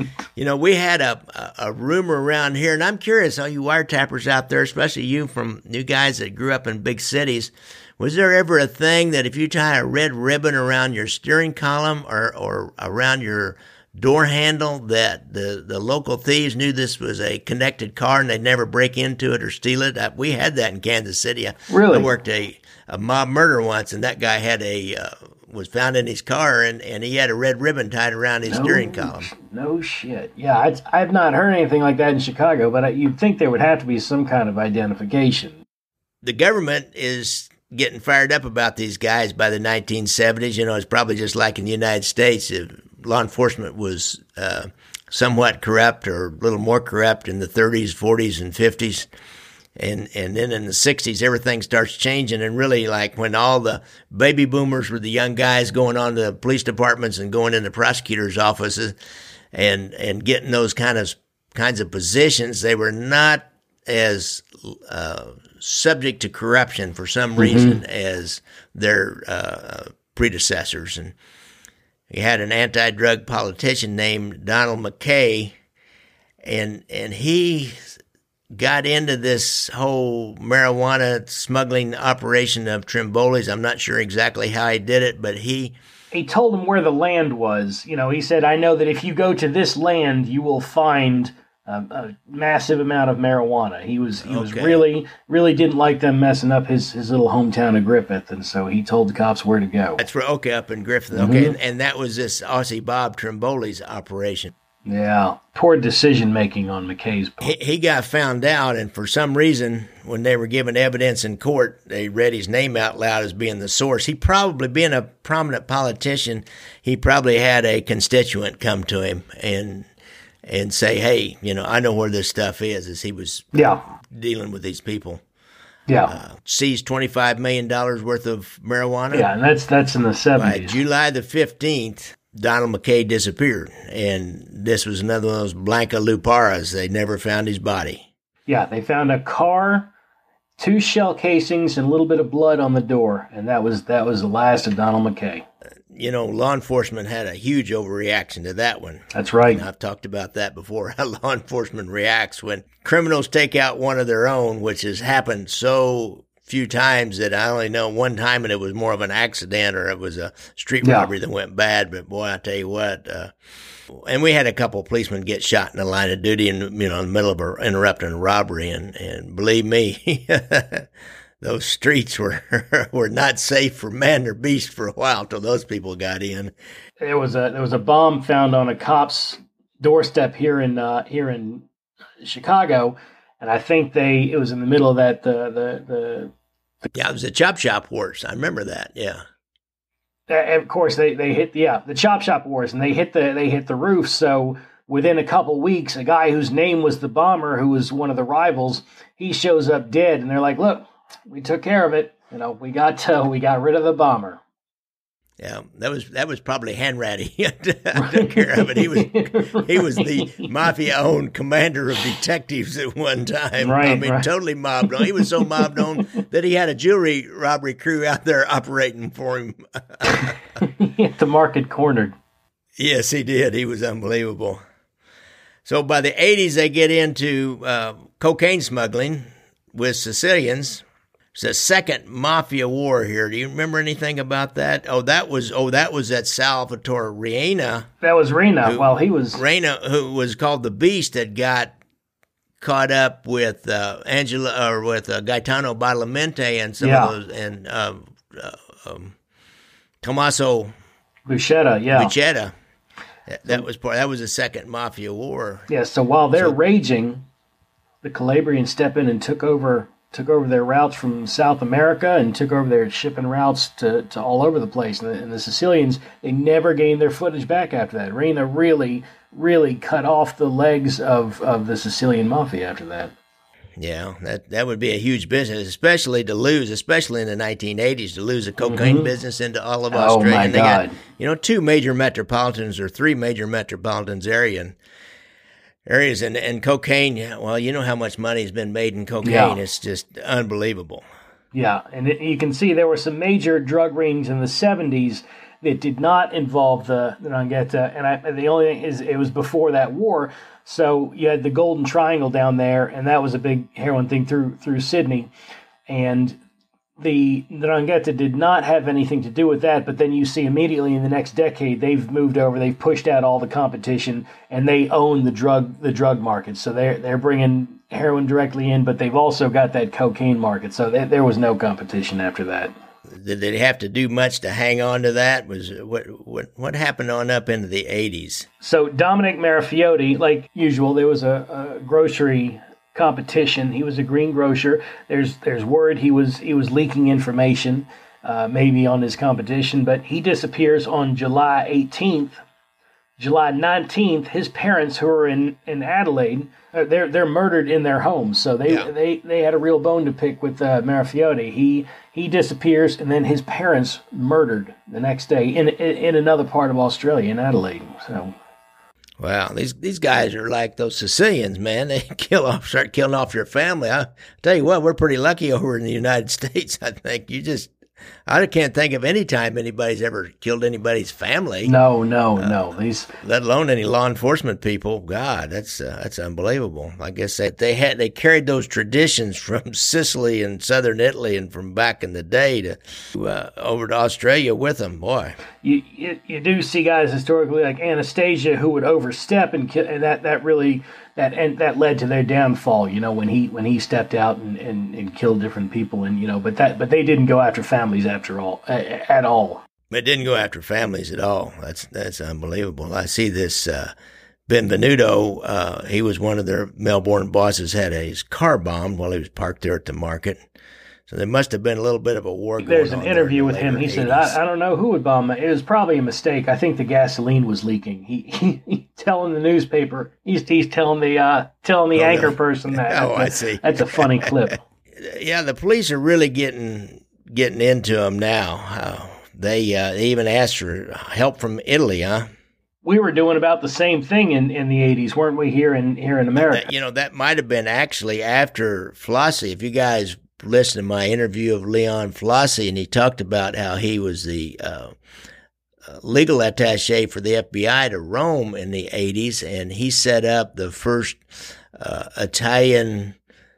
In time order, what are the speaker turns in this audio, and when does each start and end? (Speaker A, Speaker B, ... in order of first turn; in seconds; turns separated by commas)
Speaker A: 0.4-29.3, Speaker B: 21.7-22.1, Speaker B: 28.5-35.6, Speaker A: 36.2-49.1, Speaker A: 49.8-59.0, Speaker A: 59.5-71.2, Speaker B: 67.4-67.8, Speaker A: 72.1-75.5, Speaker A: 76.4-78.0, Speaker A: 78.5-85.8, Speaker B: 86.1-100.0, Speaker A: 94.2-94.8, Speaker A: 100.0-104.5, Speaker B: 101.1-101.5, Speaker B: 104.8-107.5, Speaker A: 107.4-119.9, Speaker A: 120.5-125.2, Speaker B: 123.5-123.8, Speaker B: 125.9-126.1, Speaker A: 126.1-129.3, Speaker B: 129.1-130.8, Speaker A: 130.4-138.1, Speaker B: 138.5-139.9, Speaker B: 140.6-145.5, Speaker A: 145.9-163.3, Speaker B: 149.1-149.6, Speaker B: 160.8-161.1, Speaker A: 163.9-170.9, Speaker A: 171.4-176.5, Speaker B: 177.0-181.7, Speaker B: 182.2-186.3, Speaker A: 186.9-189.2, Speaker B: 190.3-204.4, Speaker A: 205.4-220.3, Speaker B: 207.9-210.5, Speaker B: 213.6-214.3, Speaker B: 214.8-215.8, Speaker B: 220.1-222.2, Speaker A: 222.8-224.6, Speaker A: 225.7-230.8, Speaker A: 231.3-237.9, Speaker B: 238.0-239.4, Speaker A: 238.6-241.8, Speaker A: 242.6-249.2, Speaker B: 246.8-247.1, Speaker A: 250.0-250.7, Speaker B: 251.3-252.1, Speaker A: 251.9-252.5, Speaker A: 253.3-255.7, Speaker B: 255.7-257.2, Speaker B: 258.0-273.1, Speaker A: 273.8-284.8, Speaker B: 278.6-279.1, Speaker B: 279.9-281.0, Speaker A: 285.9-291.1, Speaker B: 289.2-289.6, Speaker B: 291.5-305.3, Speaker B: 305.9-306.4, Speaker B: 307.0-322.7, Speaker A: 323.1-328.5, Speaker B: 328.6-342.4, Speaker B: 343.2-358.4, Speaker A: 348.7-348.9, Speaker A: 359.2-367.7, Speaker A: 368.3-371.7, Speaker B: 371.6-373.1, Speaker A: 373.2-385.4, Speaker B: 385.6-399.6, Speaker A: 399.9-403.9, Speaker A: 404.5-410.4, Speaker A: 411.1-414.4, Speaker B: 412.6-424.6, Speaker A: 421.9-424.3, Speaker A: 424.9-432.3, Speaker B: 432.8-436.7, Speaker A: 436.4-444.9, Speaker A: 445.9-453.1